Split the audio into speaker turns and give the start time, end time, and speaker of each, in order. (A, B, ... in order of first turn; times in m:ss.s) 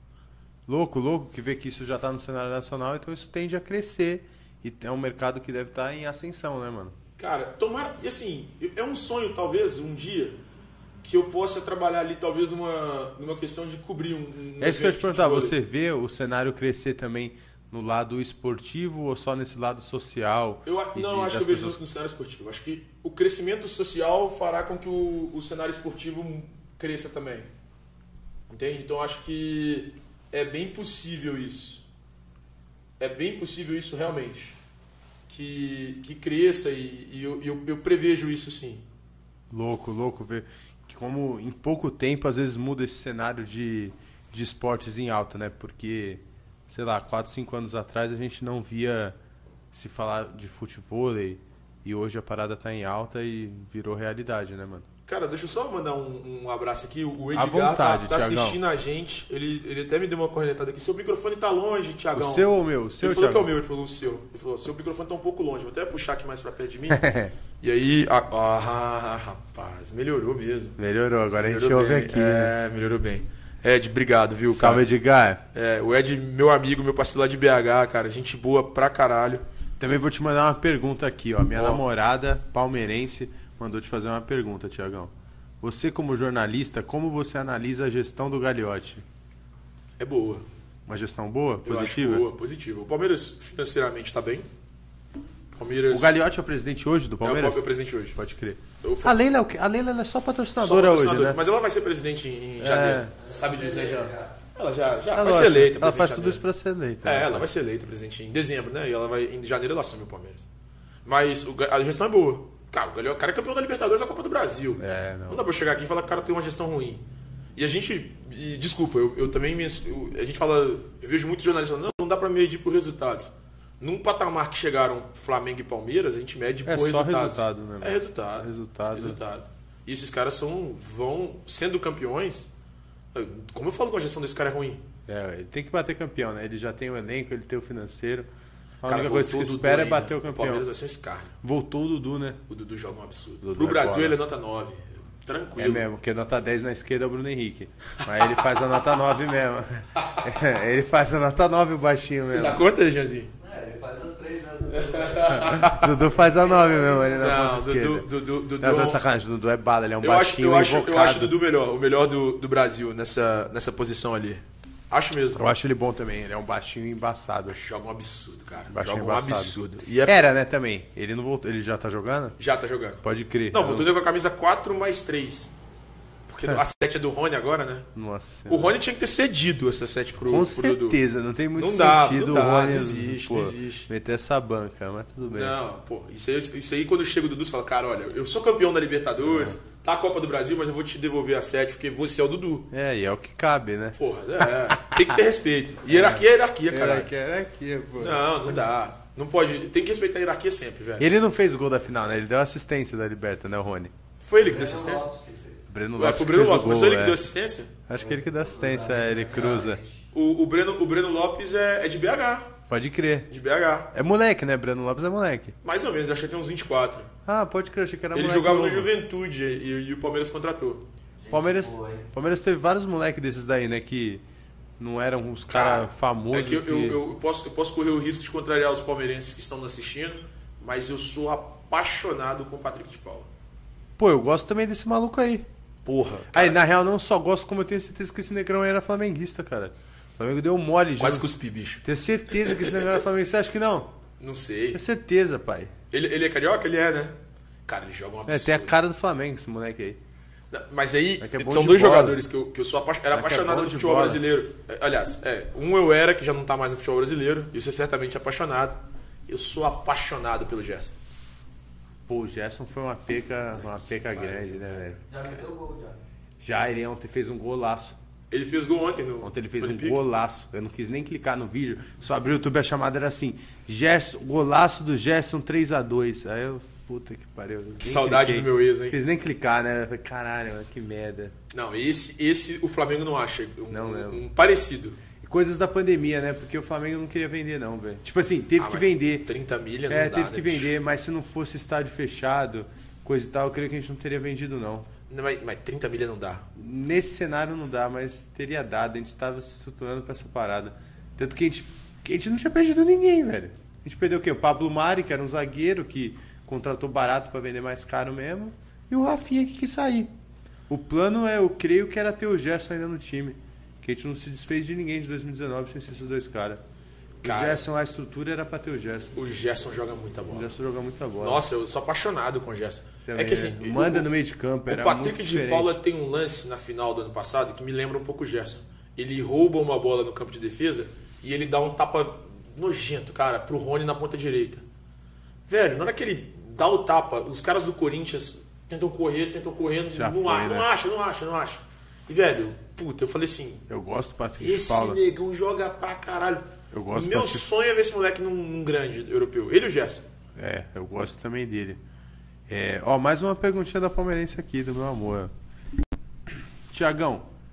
0:00.7-0:07.0 A
0:07.2-0:10.4 B
0:11.0-0:15.6 B
0:14.6-0:21.8 A
0:20.6-0:27.5 B
0:28.5-0:31.8 B
0:33.0-0:34.6 B
0:35.3-0:38.8 B
0:39.5-0:49.2 A
0:49.7-0:54.9 A
0:55.1-1:02.5 B
0:57.3-0:58.6 A
1:02.1-1:03.5 A
1:03.0-1:07.0 B
1:06.9-1:07.3 A
1:07.6-1:10.8 B
1:10.8-1:12.5 A
1:11.4-1:14.8 B
1:14.5-1:15.4 A
1:15.5-1:19.4 B
1:19.8-1:29.0 A
1:21.5-1:21.8 B
1:30.0-1:30.5 B
1:30.9-1:32.2 A
1:31.6-1:34.5 B
1:35.6-1:36.2 B
1:35.9-1:41.4 A
1:37.2-1:38.2 B
1:38.8-1:39.2 B
1:40.6-1:46.4 B
1:42.6-1:43.1 A
1:43.2-1:44.3 C
1:45.1-1:47.5 A
1:47.0-1:50.5 B
1:51.0-1:57.0 B
1:54.8-1:55.4 A
1:57.6-2:12.5 B
2:06.7-2:09.2 A
2:13.1-2:14.8 B
2:15.1-2:18.3 A
2:18.8-2:20.7 A
2:18.9-2:21.4 B
2:21.4-2:22.4 A
2:22.5-2:25.8 B
2:23.4-2:24.2 A
2:25.6-2:32.6 A
2:28.0-2:29.0 B
2:30.0-2:30.3 B
2:32.3-2:33.3 B
2:33.4-2:37.3 C
2:34.7-2:36.0 B
2:35.4-2:38.1 A
2:37.0-2:39.0 B
2:38.6-2:41.4 A
2:40.0-2:45.5 B
2:45.4-2:47.6 A
2:47.5-2:50.2 B
2:48.7-2:52.4 A
2:52.4-2:55.5 B
2:53.0-2:53.9 A
2:56.3-2:57.9 B
2:58.0-2:58.8 A
2:58.5-3:01.0 B
3:00.2-3:05.6 A
3:01.6-3:03.9 B
3:05.3-3:12.7 B
3:09.2-3:09.6 A
3:12.7-3:15.2 A
3:14.0-3:17.1 B
3:15.9-3:18.5 A
3:18.0-3:21.1 B
3:21.0-3:23.9 A
3:24.2-3:25.1 B
3:24.4-3:25.7 C
3:25.7-3:27.2 A
3:26.0-3:27.7 B
3:27.9-3:29.8 A
3:28.0-3:30.0 C
3:30.1-3:32.5 B
3:32.7-3:33.3 A
3:33.3-3:33.9 B
3:33.9-3:35.6 A
3:35.6-3:37.1 B
3:37.3-3:38.9 A
3:38.1-3:40.8 B
3:41.2-3:42.1 C
3:41.3-3:44.2 A
3:44.8-3:47.0 A
3:45.5-3:53.3 B
3:54.0-3:55.5 A
3:55.9-3:56.6 B
3:56.3-4:01.3 A
4:01.0-4:03.0 B
4:01.8-4:03.9 A
4:04.2-4:04.8 B
4:04.7-4:05.7 A
4:05.9-4:07.2 B
4:07.7-4:08.8 B
4:08.3-4:10.0 A
4:10.5-4:21.0 B
4:11.2-4:12.2 A
4:13.1-4:14.2 A
4:22.1-4:25.0 A
4:23.9-4:24.6 B
4:25.0-4:26.0 C
4:26.4-4:28.0 A
4:28.3-4:30.0 B
4:29.2-4:41.3 A
4:37.8-4:39.0 B
4:41.5-4:45.0 B
4:43.7-4:44.2 A
4:45.2-4:49.3 A
4:48.6-4:50.7 B
4:49.9-4:54.9 A
4:55.1-4:56.4 B
4:56.6-5:10.1 A
5:10.7-5:16.6 A
5:17.2-5:19.1 A
5:17.2-5:17.6 B
5:19.2-5:20.5 B
5:20.3-5:21.4 A
5:21.2-5:24.1 B
5:23.0-5:25.8 A
5:24.7-5:34.6 B
5:35.5-5:43.7 B
5:39.9-5:40.7 A
5:43.7-5:45.0 A
5:44.4-5:50.0 B
5:46.7-5:47.5 A
5:50.4-5:51.8 A
5:52.5-5:55.3 A
5:56.7-5:57.3 A